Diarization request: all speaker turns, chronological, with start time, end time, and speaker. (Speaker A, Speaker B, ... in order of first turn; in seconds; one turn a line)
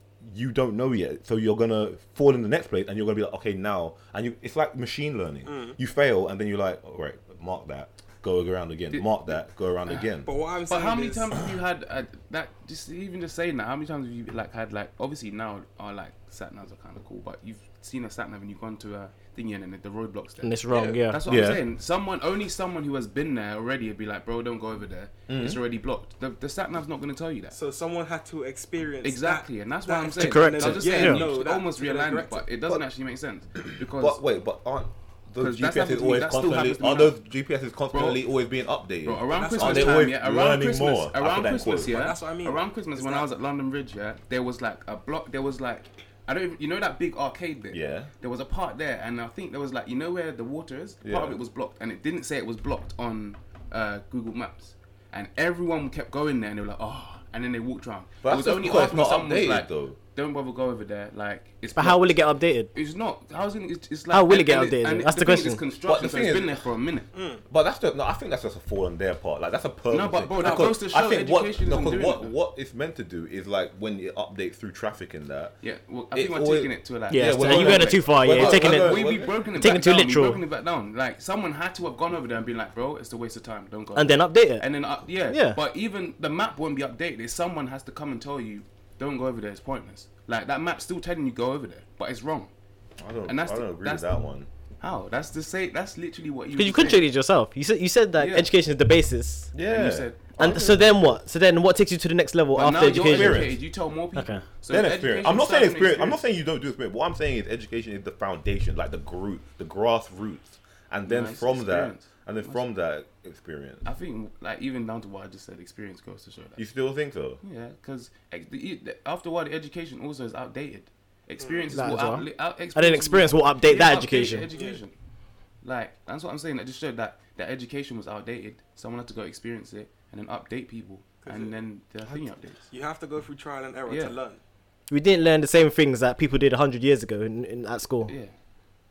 Speaker A: 0.2-10.3
Speaker B: 5.5-5.8
Speaker B: 10.2-11.4
Speaker C: 10.7-27.6
Speaker D: 20.4-21.2
Speaker B: 20.7-21.0
Speaker A: 21.3-21.6
Speaker A: 25.3-25.6
Speaker B: 27.5-32.5
Speaker C: 29.0-34.2
Speaker D: 30.2-31.3
Speaker A: 33.7-41.9
Speaker C: 35.4-37.2
Speaker C: 37.9-38.2
Speaker C: 39.0-62.2
Speaker B: 39.3-40.1
Speaker B: 41.8-43.3
Speaker A: 47.7-48.1
Speaker A: 51.0-51.4
Speaker A: 58.2-60.0
Speaker D: 61.8-62.7
Speaker C: 62.7-67.1
Speaker D: 64.1-65.6
Speaker A: 65.8-66.6
Speaker B: 67.1-67.4
Speaker A: 67.5-75.6
Speaker C: 69.9-72.3
Speaker B: 70.4-70.7
Speaker C: 75.6-92.5
Speaker A: 76.1-79.6
Speaker D: 77.1-80.4
Speaker D: 84.0-84.7
Speaker D: 85.3-85.6
Speaker A: 93.0-94.5
Speaker C: 93.2-94.1
Speaker C: 94.8-97.0
Speaker D: 96.5-99.5
Speaker C: 98.2-98.5
Speaker A: 99.5-100.8
Speaker C: 99.7-100.9
Speaker D: 100.4-103.6
Speaker C: 102.5-106.2
Speaker A: 102.6-103.6
Speaker D: 104.2-104.4
Speaker A: 104.7-113.8
Speaker C: 111.0-112.6
Speaker C: 113.8-116.6
Speaker A: 116.6-117.4
Speaker C: 117.4-124.9
Speaker B: 121.4-121.8
Speaker D: 121.7-124.5
Speaker B: 124.5-124.8
Speaker C: 125.6-132.7
Speaker B: 131.2-131.6
Speaker B: 132.7-134.4
Speaker C: 133.9-134.2
Speaker D: 134.9-138.1
Speaker C: 138.1-138.3